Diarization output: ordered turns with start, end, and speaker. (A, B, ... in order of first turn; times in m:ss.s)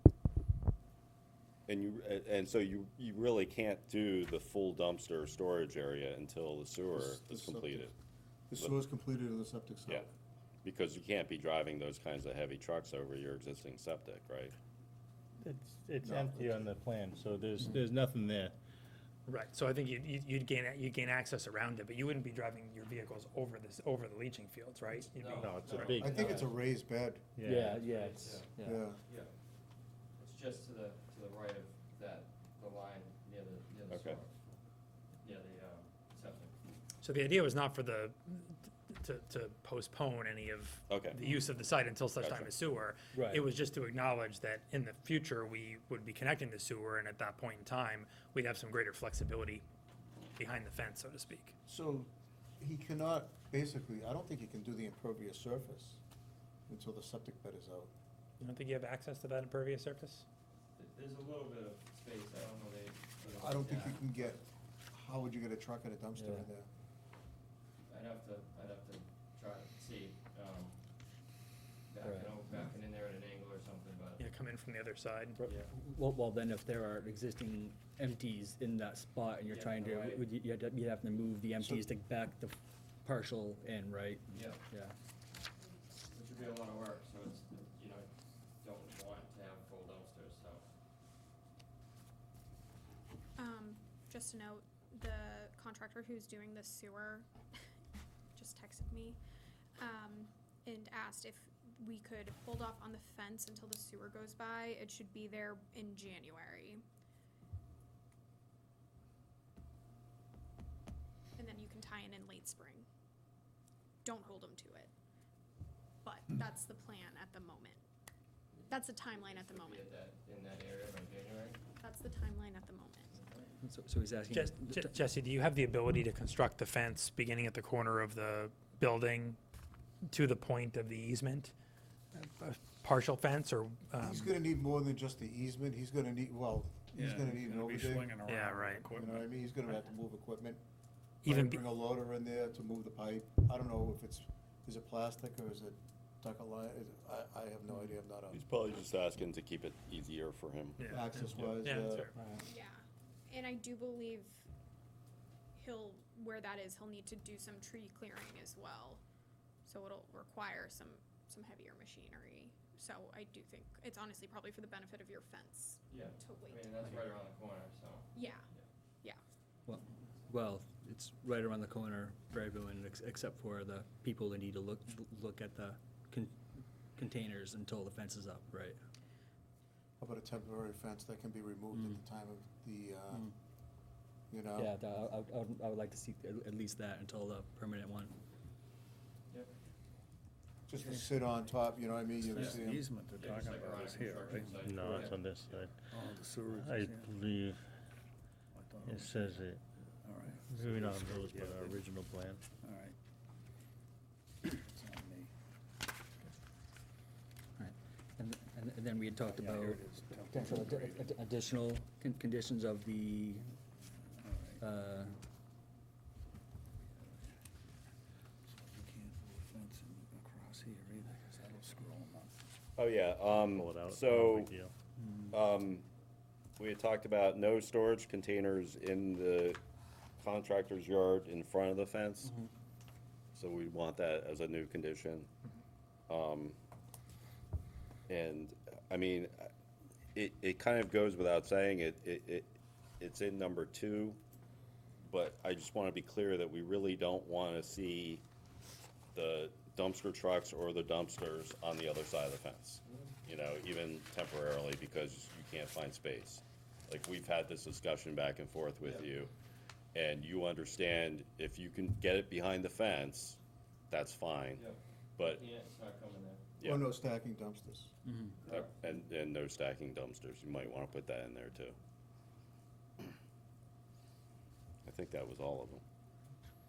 0:01.7-0:07.9 A
0:06.9-0:07.9 B
0:08.5-0:10.1 B
0:10.6-0:14.6 A
0:15.4-0:18.6 C
0:16.1-0:16.6 B
0:19.3-0:25.9 D
0:25.2-0:26.6 E
0:25.3-0:26.3 C
0:25.7-0:27.3 B
0:27.4-0:27.9 C
0:27.4-0:28.8 F
0:27.8-0:28.5 E
0:28.6-0:29.0 B
0:29.0-0:29.3 E
0:30.2-0:34.3 E
0:33.9-0:34.2 A
0:35.2-0:36.6 E
0:37.0-0:49.6 D
0:40.9-0:41.2 A
0:42.1-0:42.6 A
0:43.1-0:43.5 F
0:50.4-0:51.6 D
0:51.6-0:56.0 B
0:56.7-0:57.9 B
0:58.4-1:00.2 D
1:00.8-1:04.4 E
1:03.2-1:06.7 B
1:06.1-1:06.5 F
1:07.9-1:10.8 E
1:11.9-1:14.2 E
1:12.0-1:12.4 F
1:14.2-1:15.4 D
1:15.4-1:15.7 E
1:15.5-1:24.9 F
1:19.4-1:20.2 E
1:21.6-1:21.8 B
1:24.3-1:24.6 E
1:26.1-1:30.6 E
1:33.4-1:37.3 G
1:38.3-1:39.2 G
1:39.8-1:46.8 G
1:51.4-1:52.9 G
1:54.0-1:54.9 G
1:56.0-1:57.8 G
1:58.5-2:01.6 E
1:58.7-1:59.8 G
2:01.8-2:03.1 G
2:03.1-2:03.5 E
2:03.6-2:05.0 F
2:04.3-2:09.4 D
2:10.1-2:11.5 D
2:12.1-2:14.3 D
2:14.0-2:18.2 B
2:16.9-2:19.3 H
2:18.3-2:18.9 D
2:18.8-2:20.6 B
2:21.2-2:28.4 B
2:21.2-2:21.6 D
2:28.3-2:30.8 A
2:30.8-2:34.5 G
2:30.9-2:32.1 B
2:32.1-2:32.4 F
2:35.5-2:39.0 G
2:39.6-2:46.8 G
2:45.9-2:48.6 E
2:48.1-2:48.5 G
2:49.6-2:58.8 F
3:00.0-3:03.3 B
3:04.3-3:04.7 B
3:04.6-3:08.1 F
3:10.7-3:12.9 B
3:12.2-3:17.2 H
3:12.3-3:12.6 E
3:13.1-3:15.2 E
3:14.6-3:15.7 C
3:16.6-3:17.6 C
3:18.5-3:21.8 H
3:18.8-3:19.6 C
3:20.5-3:22.4 C
3:22.6-3:23.0 H
3:24.4-3:25.3 H
3:27.6-3:33.5 F
3:29.3-3:31.1 H
3:34.2-3:34.6 H
3:34.6-3:35.1 F
3:36.9-3:37.3 H
3:38.4-3:42.4 H
3:42.8-3:44.5 A
3:43.4-3:44.7 C
3:45.0-3:45.3 H
3:45.3-3:45.8 A
3:46.6-3:49.6 A
3:50.2-3:52.3 A
3:53.3-3:55.3 A
3:56.1-3:56.6 A
3:58.1-3:59.5 A
4:00.1-4:04.2 A
4:05.0-4:08.2 A
4:09.1-4:19.3 A
4:12.9-4:13.1 E
4:19.9-4:23.4 A
4:23.9-4:24.6 A
4:24.6-4:26.4 E
4:25.2-4:25.4 A
4:26.6-4:26.8 A
4:26.6-4:27.9 B
4:28.0-4:28.4 F
4:28.4-4:31.8 A
4:34.8-4:35.8 A